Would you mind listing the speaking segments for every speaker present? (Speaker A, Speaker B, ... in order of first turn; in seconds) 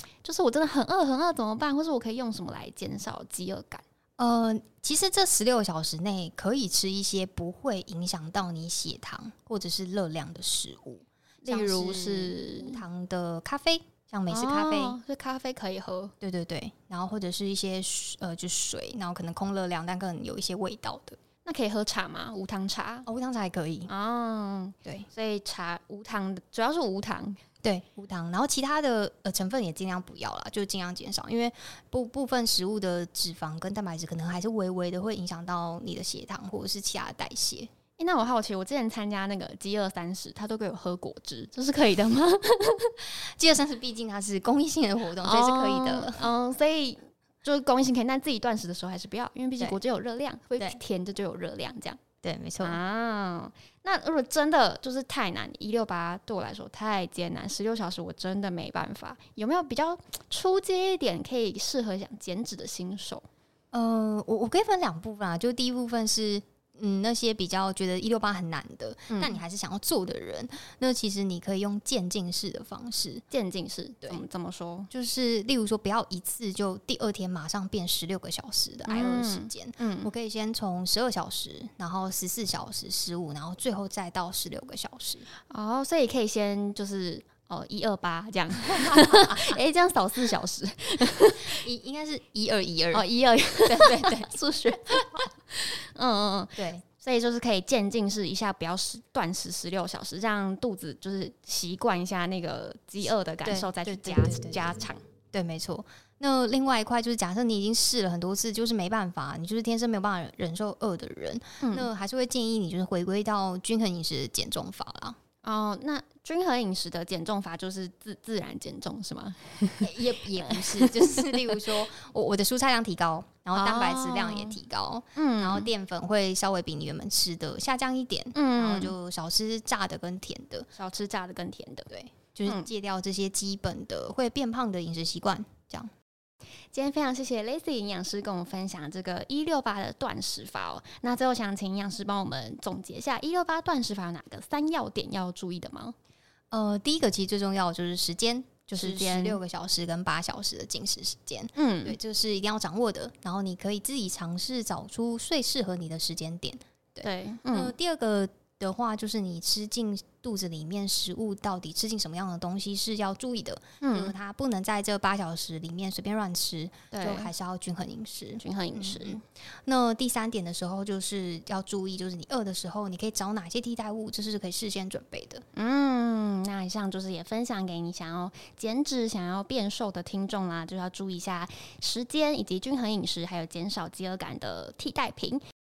Speaker A: 0.2-3.8, 11.4-12.8, 14.3-16.1, 21.4-23.1, 23.9-27.4, 38.0-43.0, 45.2-52.0, 52.6-63.2, 69.1-69.4, 73.3-74.9, 78.9-80.1, 85.5-91.6, 92.9-105.0, 111.6-111.9, 115.4-121.6, 123.5-124.6, 125.2-125.7, 128.3-128.9, 130.8-131.9, 136.7-145.9, 148.7-149.4, 151.6-152.0, 157.0-157.7, 163.8-164.1, 166.9-167.3, 168.4-169.2, 175.6-185.4
Speaker B: 4.2-15.0, 16.2-21.2, 23.1-23.9, 27.6-37.7, 43.4-46.3, 52.2-52.8, 63.7-73.2, 74.9-85.3, 88.7-89.6, 91.5-93.0, 93.6-94.3, 96.6-96.8, 103.5-104.7, 105.3-115.2, 119.8-130.7, 131.9-135.9, 146.5-175.4